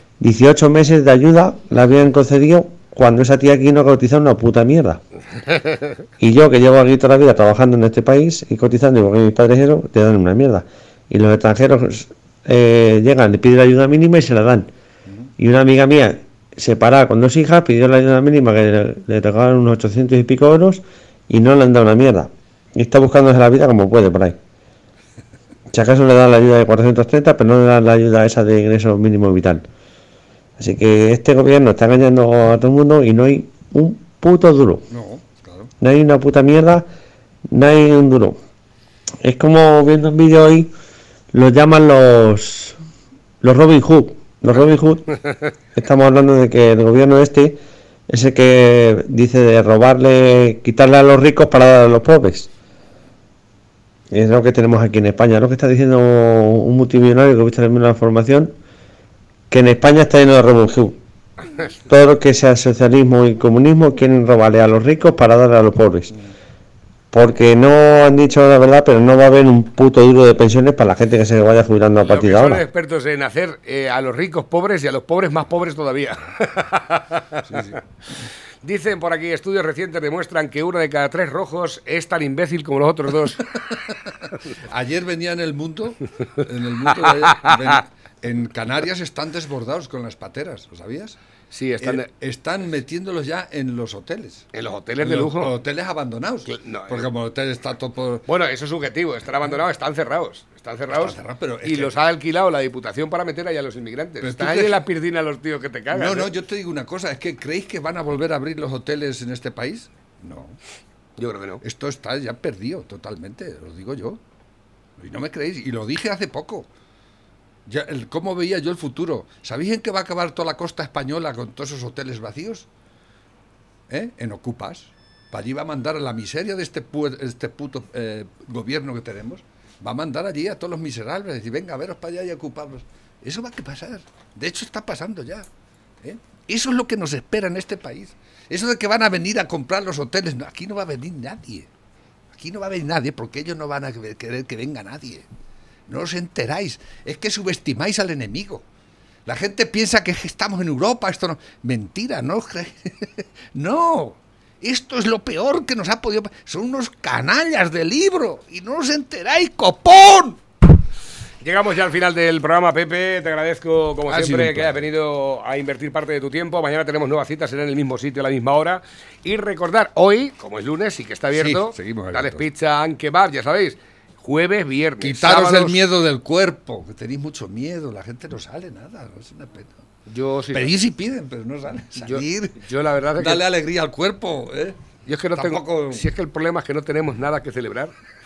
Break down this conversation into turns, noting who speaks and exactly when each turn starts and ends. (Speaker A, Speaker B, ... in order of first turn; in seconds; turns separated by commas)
Speaker A: 0.2-5.0, Speaker A: 6.2-14.7, Speaker A: 15.4-24.4, Speaker A: 25.7-29.6, Speaker A: 30.6-34.9, Speaker B: 34.9-35.7, Speaker A: 35.8-36.9, Speaker A: 37.5-38.4, Speaker A: 39.2-40.7, Speaker A: 41.3-42.8, Speaker A: 43.4-45.2, Speaker A: 45.8-52.5, Speaker A: 54.1-58.5, Speaker A: 59.5-61.0, Speaker A: 61.9-66.1, Speaker A: 67.1-72.7, Speaker C: 72.0-77.8, Speaker B: 77.5-77.8, Speaker C: 78.6-83.4, Speaker B: 84.6-91.2, Speaker C: 87.0-87.8, Speaker C: 91.5-92.1, Speaker B: 91.8-94.5, Speaker C: 94.5-95.5, Speaker B: 95.0-98.3, Speaker C: 96.5-97.1, Speaker C: 98.3-106.3, Speaker B: 100.9-102.0, Speaker B: 104.2-104.8, Speaker B: 105.9-110.6, Speaker C: 111.2-111.6, Speaker B: 111.6-114.2, Speaker B: 115.0-116.7, Speaker B: 117.7-122.7, Speaker B: 123.9-135.5, Speaker B: 136.0-141.7, Speaker B: 142.3-145.3, Speaker B: 145.9-148.7, Speaker B: 149.3-160.4, Speaker C: 161.4-175.8, Speaker B: 164.1-164.8, Speaker B: 171.3-172.5, Speaker B: 175.0-179.8, Speaker C: 180.1-180.7, Speaker B: 180.5-182.6, Speaker C: 182.0-183.4, Speaker B: 183.2-186.1, Speaker C: 185.1-187.9